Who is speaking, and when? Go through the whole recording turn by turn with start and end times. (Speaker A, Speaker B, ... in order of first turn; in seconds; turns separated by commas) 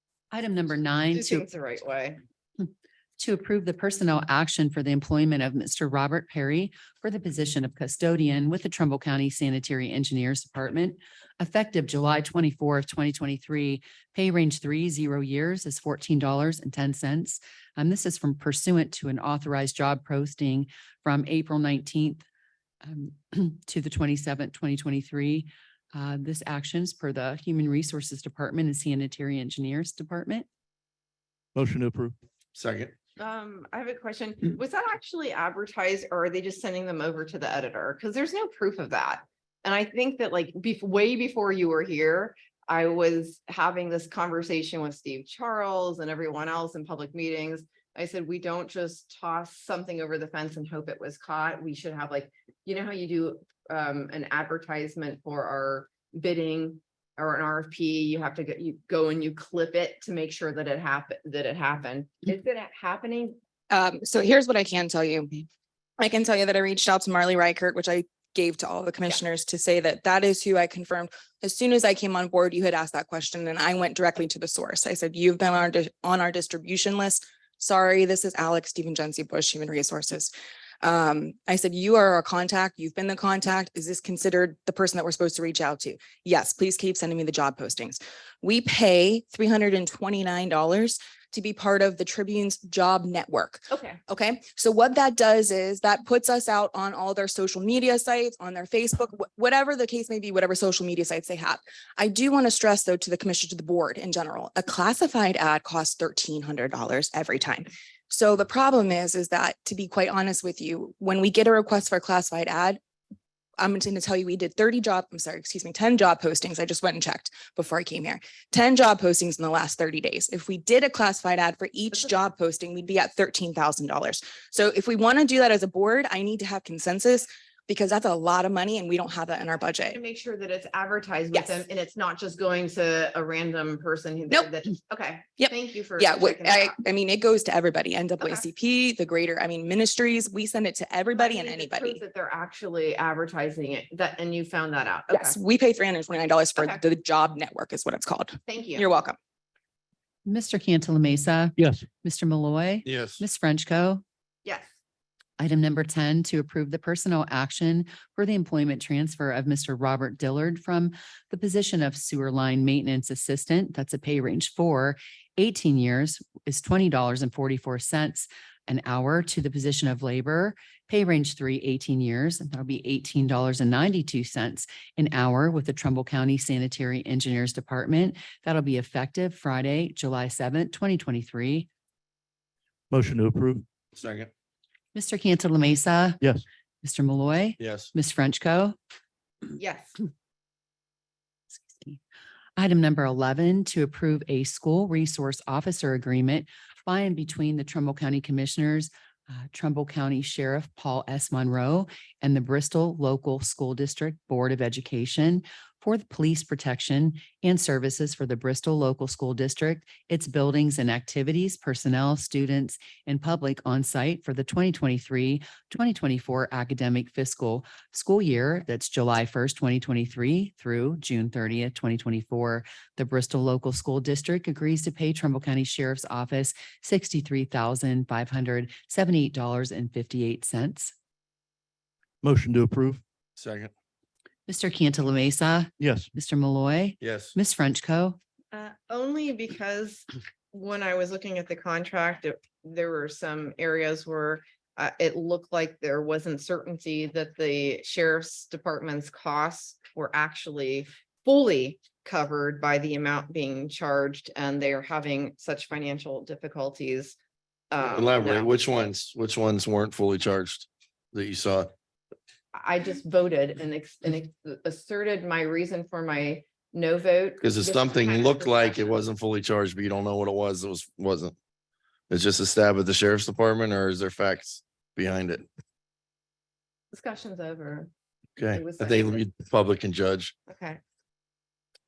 Speaker A: 0.3-1.5, Speaker B: 1.1-2.2, Speaker A: 2.6-22.2, Speaker A: 22.8-30.5, Speaker C: 31.6-32.1, Speaker D: 32.5-32.9, Speaker B: 33.2-63.4, Speaker E: 63.7-65.5, Speaker E: 66.0-112.8, Speaker B: 93.7-94.0, Speaker E: 113.6-130.0, Speaker B: 129.8-136.8, Speaker E: 131.3-131.6, Speaker E: 135.4-142.0, Speaker B: 141.2-145.4, Speaker E: 145.1-149.2, Speaker B: 146.6-146.8, Speaker B: 148.5-148.9, Speaker A: 150.2-154.0, Speaker C: 151.6-151.9, Speaker D: 152.8-153.2, Speaker A: 155.4-181.7, Speaker C: 182.9-183.7, Speaker D: 183.9-184.3, Speaker A: 184.9-186.2, Speaker A: 186.8-188.8, Speaker D: 187.6-187.9, Speaker B: 189.6-190.0, Speaker A: 191.5-192.0, Speaker A: 192.6-230.9, Speaker C: 232.2-233.0, Speaker D: 233.4-233.7, Speaker A: 234.5-238.2, Speaker C: 235.8-236.1, Speaker D: 237.0-237.4, Speaker B: 238.5-257.2, Speaker B: 257.7-258.5, Speaker D: 257.8-261.7, Speaker B: 262.5-269.0, Speaker D: 267.4-271.4, Speaker D: 272.1-275.5, Speaker B: 276.9-277.9, Speaker D: 278.4-280.4, Speaker B: 278.5-279.2, Speaker B: 280.5-280.8